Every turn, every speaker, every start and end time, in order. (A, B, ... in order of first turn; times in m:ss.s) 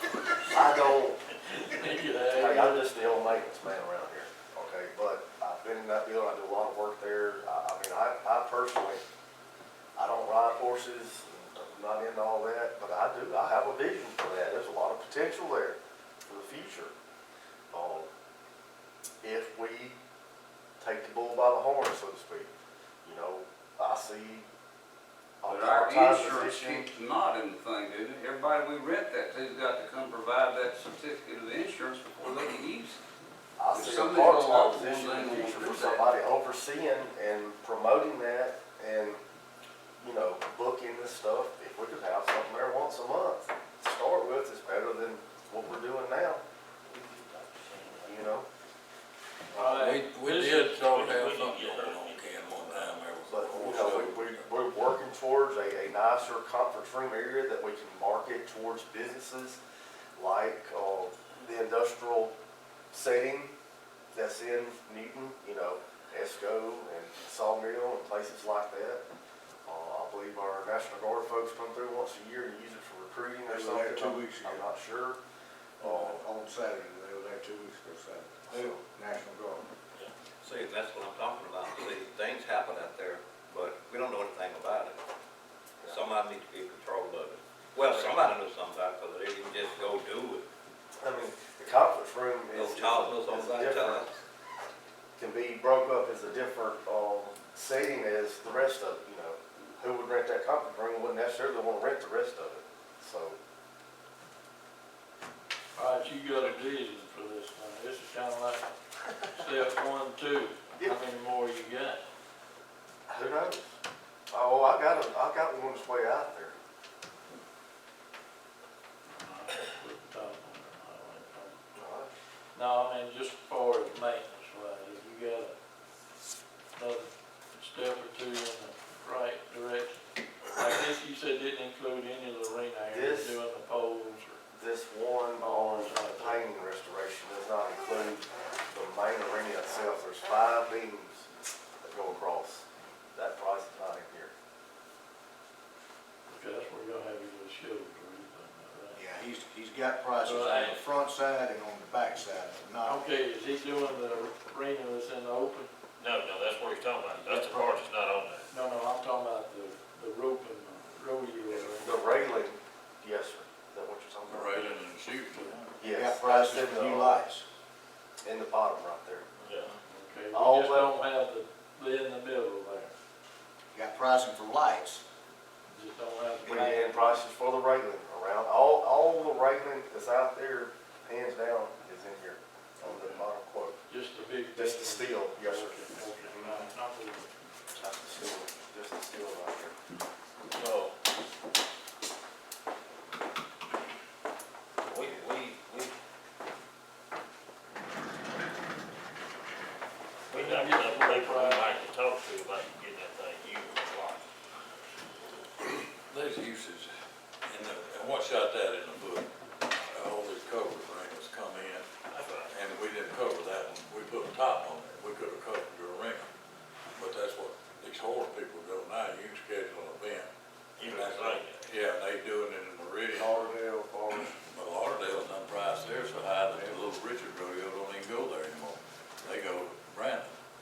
0:00.5-0:01.2 A
0:01.6-0:03.1 B
0:02.3-0:09.0 A
0:10.0-0:16.9 A
0:17.7-0:18.1 A
0:19.2-0:20.0 A
0:20.8-0:22.5 A
0:23.0-0:24.5 A
0:25.4-0:26.9 A
0:25.5-0:33.0 C
0:33.6-0:39.2 A
0:33.7-0:36.0 C
0:40.0-0:46.4 A
0:46.8-0:48.3 D
0:48.0-0:48.5 A
0:49.6-0:50.8 B
0:49.6-0:54.4 E
0:50.8-0:53.2 D
0:53.3-0:59.6 A
1:00.2-1:02.3 A
1:02.9-1:03.5 A
1:04.1-1:09.0 A
1:09.6-1:15.2 A
1:13.5-1:14.7 F
1:15.8-1:16.3 A
1:15.8-1:19.7 F
1:18.5-1:18.8 A
1:20.4-1:25.0 G
1:25.9-1:30.5 G
1:31.0-1:34.1 A
1:32.6-1:34.2 G
1:35.2-1:43.4 A
1:45.8-1:48.7 B
1:49.2-1:52.0 B
1:53.1-1:53.7 A
1:54.3-1:56.6 A
1:59.1-2:01.6 B
2:01.8-2:02.1 A
2:02.6-2:05.5 B
2:06.8-2:14.4 B
2:12.9-2:13.4 A
2:14.4-2:21.2 A
2:15.4-2:16.4 B
2:21.8-2:24.3 A
2:26.3-2:29.0 B
2:29.0-2:33.0 F
2:30.2-2:30.8 B
2:32.8-2:35.7 B
2:36.0-2:38.5 D
2:37.2-2:37.8 B
2:38.5-2:42.0 B
2:41.8-2:44.7 A
2:44.3-2:45.4 E
2:45.3-2:45.7 B
2:45.8-2:47.2 A
2:45.9-2:47.4 F
2:48.2-2:49.3 A
2:49.4-2:49.7 D
2:49.7-2:52.9 B
2:50.3-2:50.9 A
2:53.7-2:55.0 F
2:55.7-2:57.2 B
2:56.5-3:03.8 A
3:02.9-3:03.2 B
3:03.9-3:07.3 B
3:04.5-3:06.7 A
3:07.7-3:09.7 A
3:10.5-3:10.9 D
3:14.8-3:15.9 D
3:20.3-3:24.2 D
3:20.3-3:21.9 B
3:25.7-3:26.9 E
3:27.5-3:31.9 E
3:32.1-3:32.5 D
3:32.5-3:36.3 E
3:37.0-3:43.4 E
3:40.8-3:41.7 D
3:43.1-3:44.3 A
3:44.2-3:50.3 E